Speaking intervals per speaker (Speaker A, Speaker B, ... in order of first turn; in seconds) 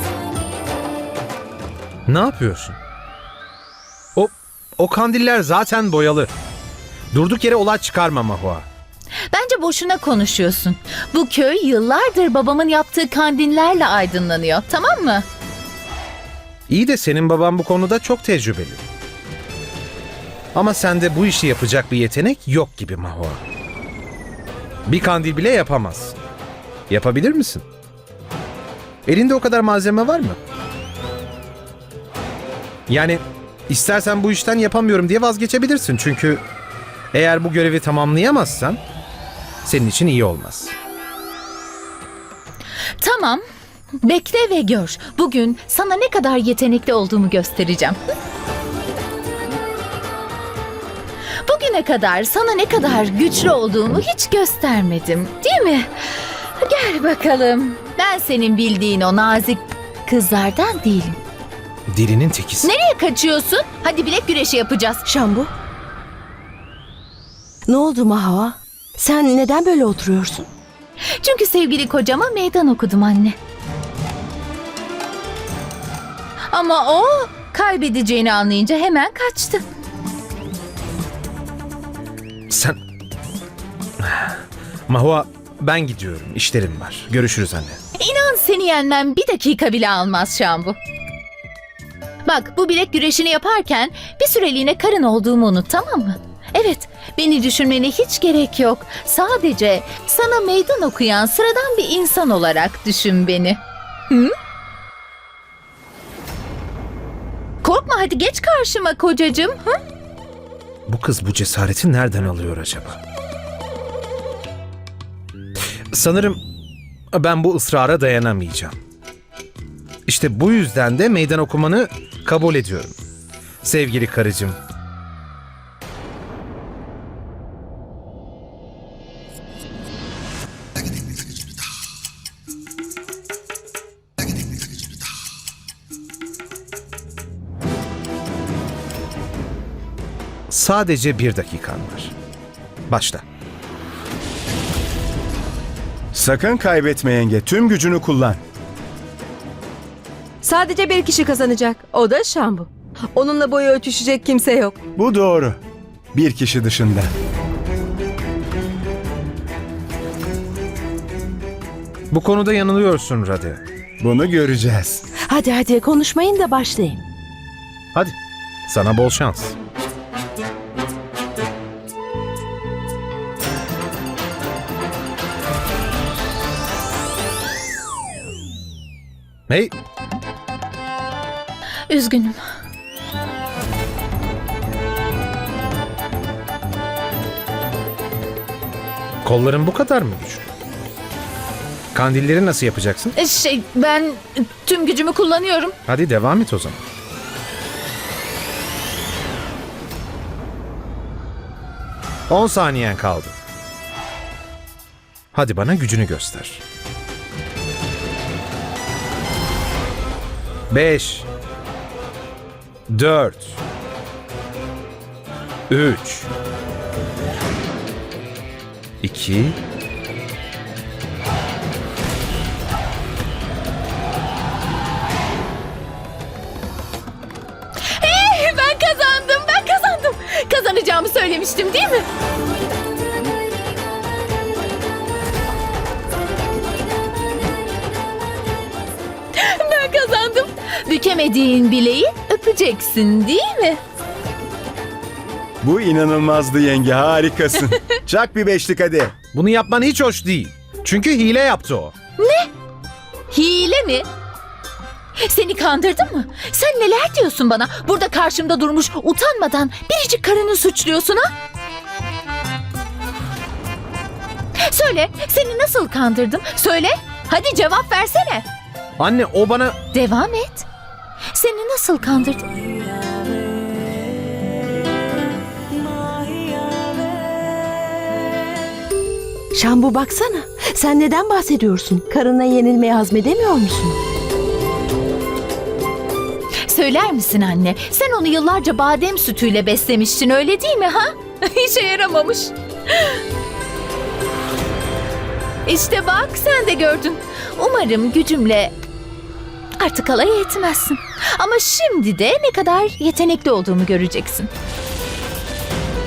Speaker A: 2.1-2.8, 4.2-6.3, 7.1-8.7, 16.7-18.8, 20.5-23.4, 24.9-26.2, 26.9-27.6, 29.1-30.4, 32.9-36.4, 37.1-38.8, 39.6-40.7, 61.9-62.7, 82.5-82.8, 84.0-84.4, 84.9-87.8, 110.9-113.0, 115.9-116.4, 117.1-118.8, 120.1-123.0, 123.6-124.6, 140.5-142.1, 142.9-143.2, 162.1-163.6, 167.9-169.5, 179.5-179.7, 189.2-190.5, 191.9-193.1, 195.9-196.8, 202.3-203.3, 205.3-206.6, 210.7-211.3, 212.9-213.6, 215.7-216.3, 219.0-219.6, 249.3-251.9, 269.0-269.8
Speaker B: 9.3-15.2, 43.0-43.4, 44.0-48.0, 51.5-61.2, 62.6-65.0, 71.2-73.3, 76.5-79.6, 88.0-90.8, 92.2-104.3, 107.6-109.8, 181.9-182.4, 193.2-195.8, 227.9-232.0, 239.3-243.8, 252.2-252.5, 253.3-254.1, 255.2-261.3, 264.7-268.4, 269.9-270.7, 271.3-272.4, 286.6-293.2, 295.6-298.7, 299.8-304.5
Speaker C: 65.1-65.5, 67.7-70.5, 165.2-167.0, 279.5-284.0
Speaker D: 146.1-148.4, 154.9-155.6, 156.1-157.1, 164.0-165.0, 245.6-249.1
Speaker E: 150.4-154.8